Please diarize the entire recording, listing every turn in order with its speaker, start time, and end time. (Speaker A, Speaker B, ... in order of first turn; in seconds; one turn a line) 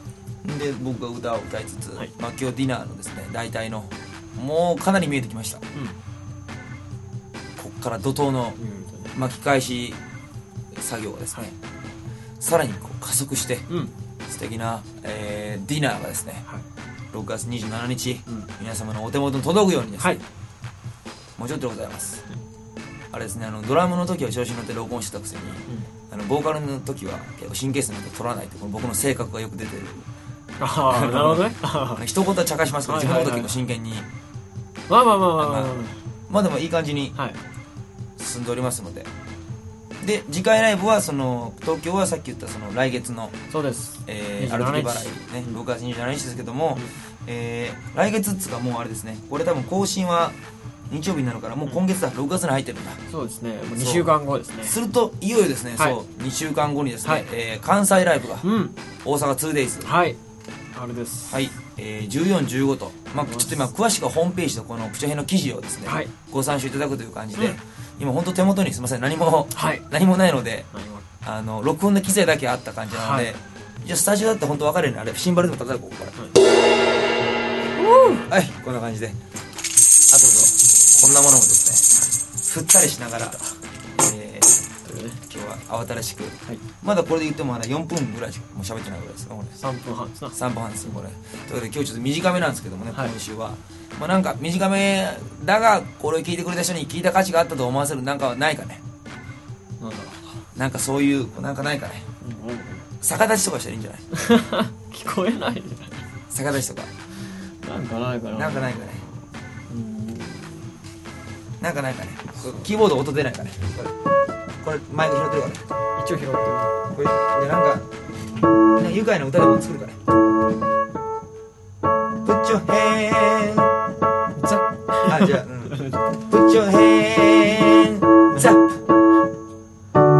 Speaker A: 0.4-5.6
Speaker A: 7.6-8.6
Speaker B: 8.6-9.1
Speaker A: 9.1-10.0
Speaker A: 10.7-11.5
Speaker A: 12.4-13.7
Speaker B: 13.7-13.9
Speaker A: 14.3-16.4
Speaker A: 17.1-20.2
Speaker A: 21.4-22.2
Speaker A: 23.1-30.1
Speaker B: 30.6-32.1
Speaker A: 30.9-34.1
Speaker B: 32.8-33.6
Speaker B: 34.9-36.0
Speaker A: 35.4-37.2
Speaker A: 38.2-39.1
Speaker A: 40.0-43.4
Speaker B: 43.5-45.5
Speaker A: 44.1-50.4
Speaker A: 50.9-53.0
Speaker B: 53.1-54.8
Speaker A: 53.8-58.5
Speaker B: 58.4-58.8
Speaker A: 59.0-59.9
Speaker B: 59.8-60.2
Speaker B: 60.7-61.4
Speaker A: 61.3-70.7
Speaker B: 63.1-63.7
Speaker B: 65.9-66.2
Speaker B: 69.5-69.9
Speaker B: 70.7-71.1
Speaker A: 71.2-76.2
Speaker B: 72.9-73.3
Speaker B: 77.8-78.3
Speaker A: 78.2-79.2
Speaker A: 80.1-81.9
Speaker A: 82.4-83.4
Speaker A: 84.0-84.5
Speaker B: 84.8-85.2
Speaker A: 85.3-89.5
Speaker B: 89.5-90.4
Speaker A: 90.3-98.8
Speaker B: 92.9-93.2
Speaker B: 99.8-100.4
Speaker A: 100.5-102.1
Speaker B: 102.2-102.9
Speaker A: 103.0-104.0
Speaker B: 104.1-106.1
Speaker A: 106.3-106.9
Speaker B: 107.6-109.1
Speaker A: 108.3-109.0
Speaker B: 109.7-110.8
Speaker A: 111.6-113.9
Speaker A: 114.6-115.6
Speaker B: 116.0-116.8
Speaker A: 116.8-117.9
Speaker A: 118.8-120.0
Speaker A: 122.2-123.8
Speaker B: 124.4-126.2
Speaker A: 125.1-128.8